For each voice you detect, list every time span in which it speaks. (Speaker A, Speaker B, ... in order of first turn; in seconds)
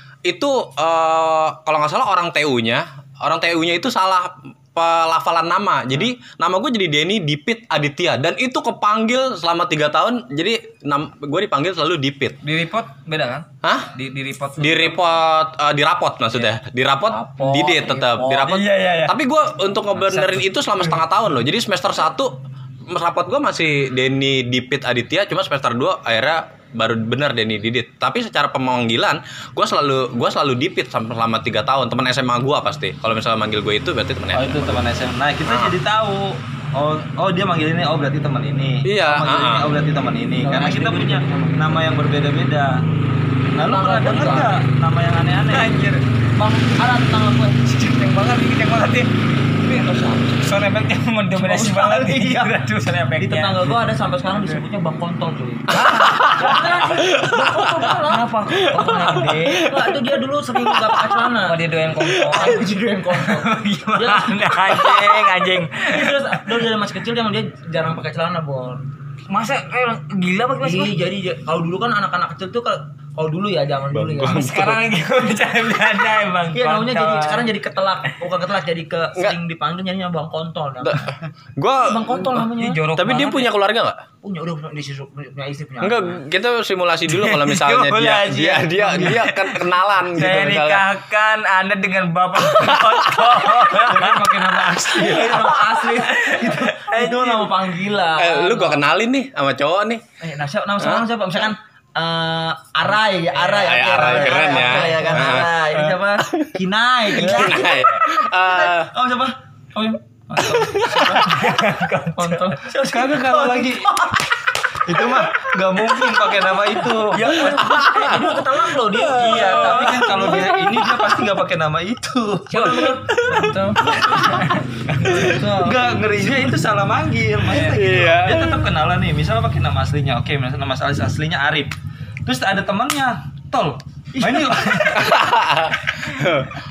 Speaker A: 0.3-12.4, 13.6-13.9, 14.6-22.4, 22.9-34.8, 35.5-35.8, 38.9-39.7, 55.9-58.0, 58.6-61.3, 62.0-62.4, 73.9-74.8, 80.8-84.0, 85.8-90.9, 92.4-93.6, 98.1-100.0, 100.8-101.1, 103.4-105.7, 106.2-106.5, 107.1-108.9, 110.5-111.1, 117.3-120.6, 127.6-128.7, 134.9-136.5
Speaker B: 12.4-15.1, 17.1-19.2, 20.0-20.8, 45.5-46.0, 47.6-49.1, 50.3-53.7, 55.7-56.6, 58.1-59.5, 61.4-66.6, 69.3-71.0, 74.2-77.5, 82.6-83.5, 87.1-94.5, 95.3-97.5, 104.0-105.3, 111.2-112.6, 119.6-119.9, 122.5-125.4
Speaker C: 17.3-17.9, 40.4-41.9, 43.6-44.6, 46.4-47.6, 51.3-52.6, 53.2-61.6, 62.2-68.9, 70.6-74.7, 76.5-81.1, 81.8-82.8, 84.2-86.2, 94.9-98.8, 100.2-114.2, 117.2-120.5, 122.5-124.5, 125.1-125.8, 134.1-135.1
Speaker D: 34.3-42.9, 43.5-45.8, 49.7-50.3, 89.0-89.2, 93.8-95.7, 96.4-96.9, 107.2-107.5, 109.8-111.5, 112.8-113.9, 114.9-117.7, 119.1-122.9, 125.3-131.7, 132.3-135.1